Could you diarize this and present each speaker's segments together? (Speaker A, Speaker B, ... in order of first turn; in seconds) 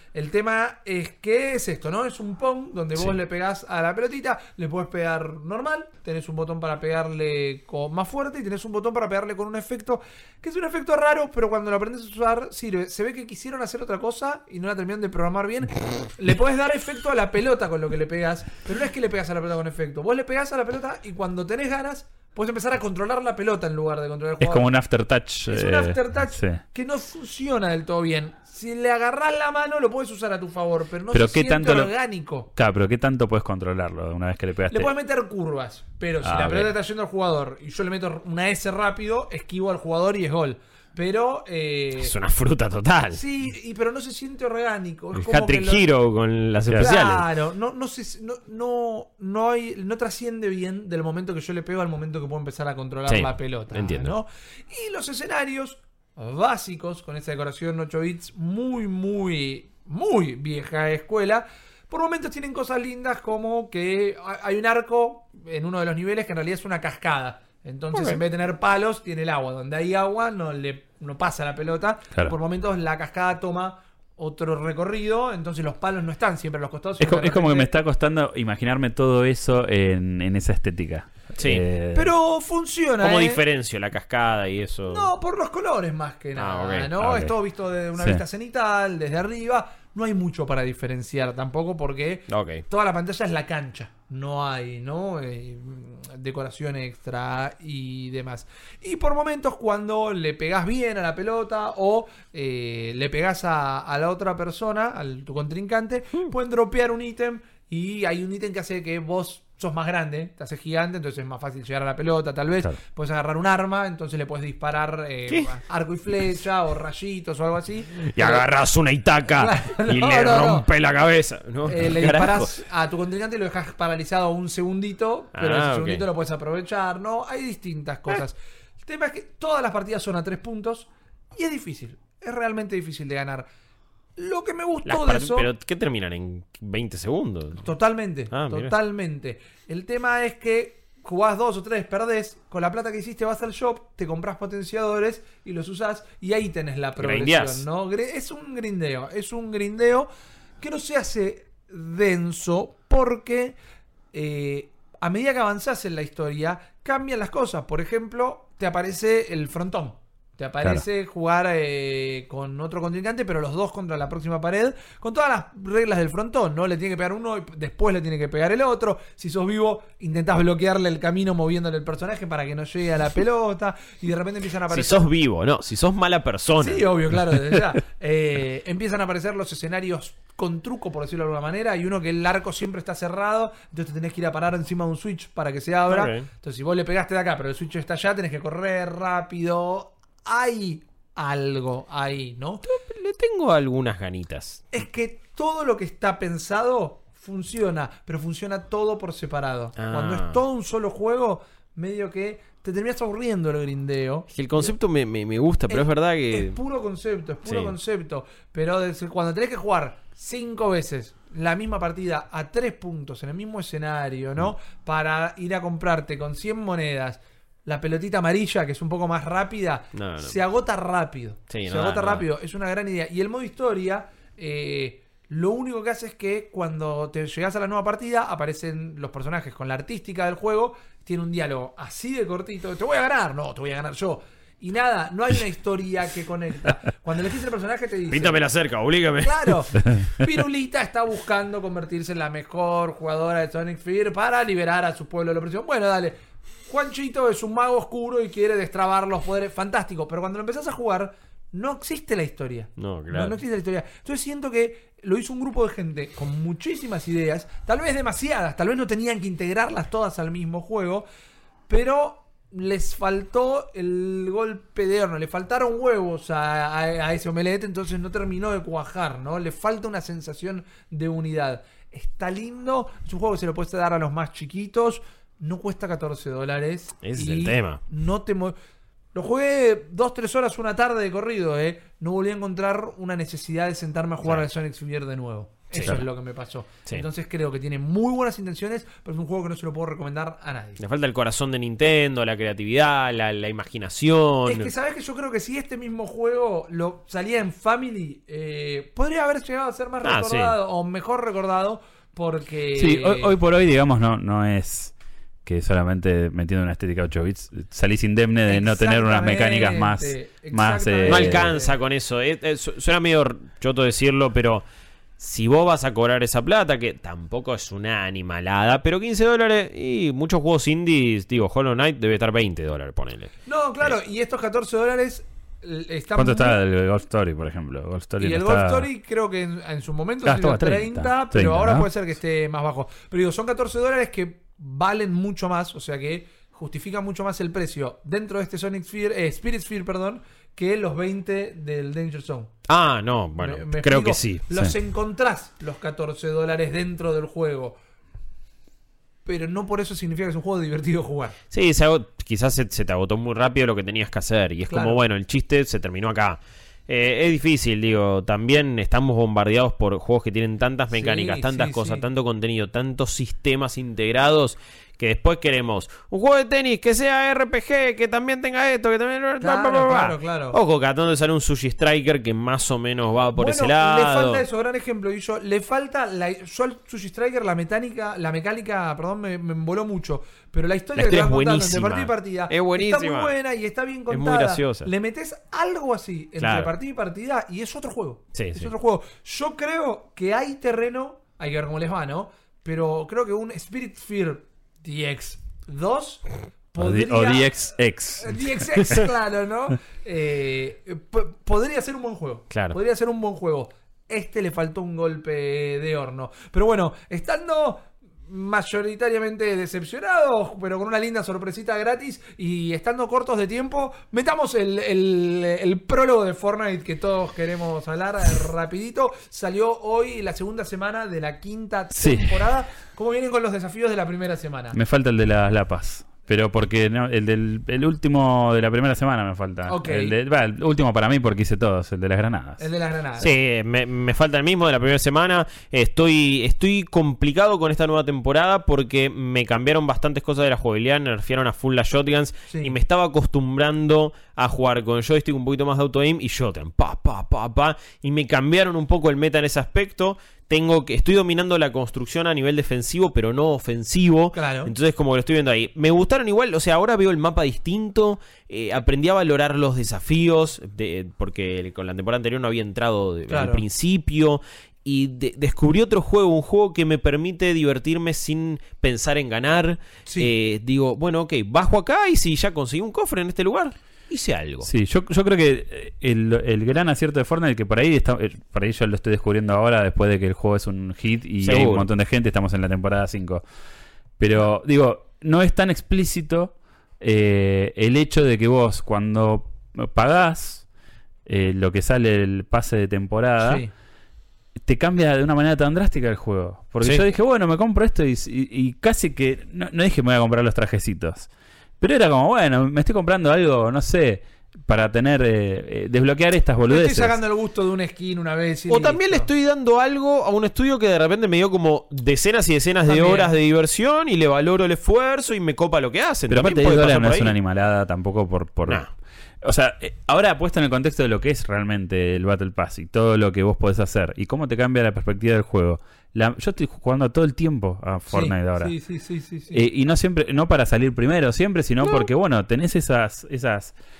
Speaker A: 0.1-24.7, 25.5-32.5, 34.7-42.1, 43.1-45.9, 46.8-77.7, 81.9-83.4, 84.9-118.5, 119.3-120.7, 121.7-133.5, 134.2-135.5, 137.6-150.1, 150.6-153.6, 154.1-175.1, 176.6-192.6, 194.7-204.7, 205.7-238.4, 239.2-261.1, 261.7-278.6, 279.1-290.8, 294.4-303.4, 308.5-311.7, 323.5-326.6, 328.2-342.5, 343.4-347.8, 349.2-351.4, 354.7-355.0, 360.9-362.1, 369.4-370.6, 373.4-424.8, 429.7-430.2, 432.6-433.3, 454.3-454.7, 463.3-463.6, 493.4-493.7, 506.7-509.3, 512.9-513.3, 528.1-529.6
Speaker B: 24.4-26.6, 31.1-31.9, 32.5-34.9, 36.2-36.7, 46.7-46.9, 77.0-82.1, 87.0-87.3, 302.7-304.9, 305.4-311.5, 326.1-328.9, 330.2-331.9, 396.8-398.7, 422.0-422.3, 424.7-432.6, 474.6-483.4, 484.2-490.6, 491.2-493.6, 494.6-507.1, 516.3-518.8, 519.4-528.7, 529.5-533.7
Speaker C: 42.0-43.2, 45.1-47.3, 53.1-54.1, 67.9-68.2, 81.4-81.6, 83.0-85.1, 86.4-87.3, 92.3-92.6, 115.3-115.5, 118.0-122.6, 125.3-126.0, 134.9-137.7, 138.3-138.7, 147.0-147.6, 174.7-176.9, 185.9-186.3, 192.7-194.7, 199.8-200.4, 204.3-206.6, 207.4-207.8, 219.9-220.4, 221.5-222.2, 238.1-239.7, 252.8-253.4, 277.0-277.8, 285.7-286.0, 290.8-294.7, 300.0-300.6, 311.1-314.6, 315.2-323.3, 342.7-344.4, 351.5-374.4, 381.0-383.3, 384.1-384.9, 386.4-386.7, 388.3-388.7, 402.5-402.8, 433.2-474.7, 481.4-481.9, 508.7-517.3